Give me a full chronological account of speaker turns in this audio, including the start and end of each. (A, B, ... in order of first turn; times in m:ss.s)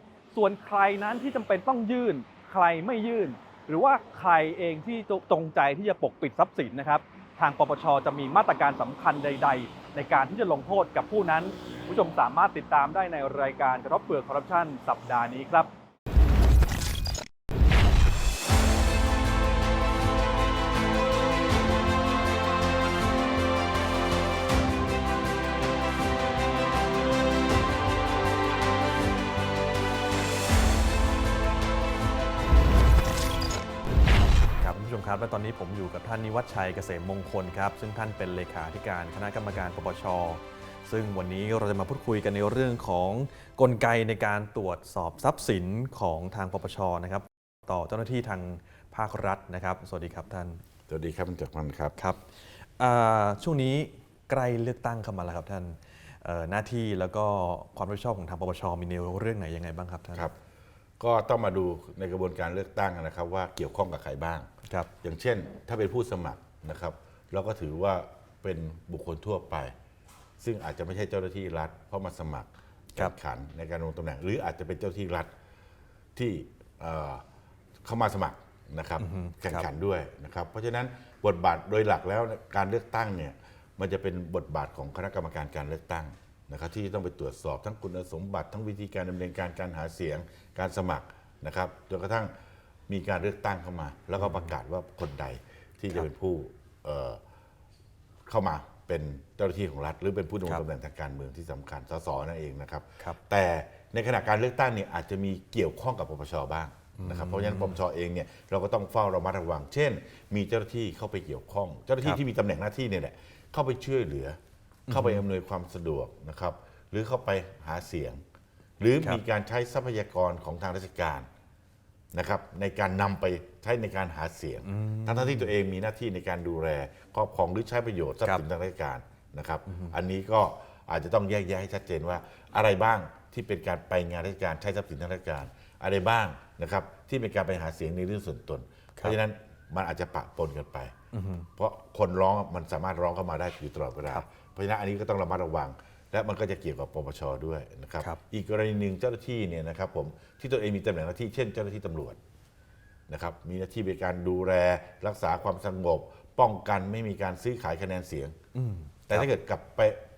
0:00.3-0:15.7 A
0:34.6-0:50.6 B
0:50.9-0:52.0 C
0:52.0-1:00.3 B
1:01.0-1:04.5 C
1:05.0-1:09.7 C
1:10.4-1:15.3 C
1:16.2-1:17.2 C
1:17.8-1:32.3 C
1:19.0-1:19.6 B
1:32.9-1:37.2 C
1:38.3-1:58.2 C
1:47.0-1:47.8 B
1:54.9-1:55.2 B
1:58.8-2:01.3 C
2:02.1-2:20.9 C
2:04.6-2:05.5 B
2:09.7-2:10.0 B
2:21.1-2:21.5 B
2:21.6-2:32.2 C
2:33.1-2:38.4 C
2:38.6-2:39.3 B
2:39.1-2:40.0 C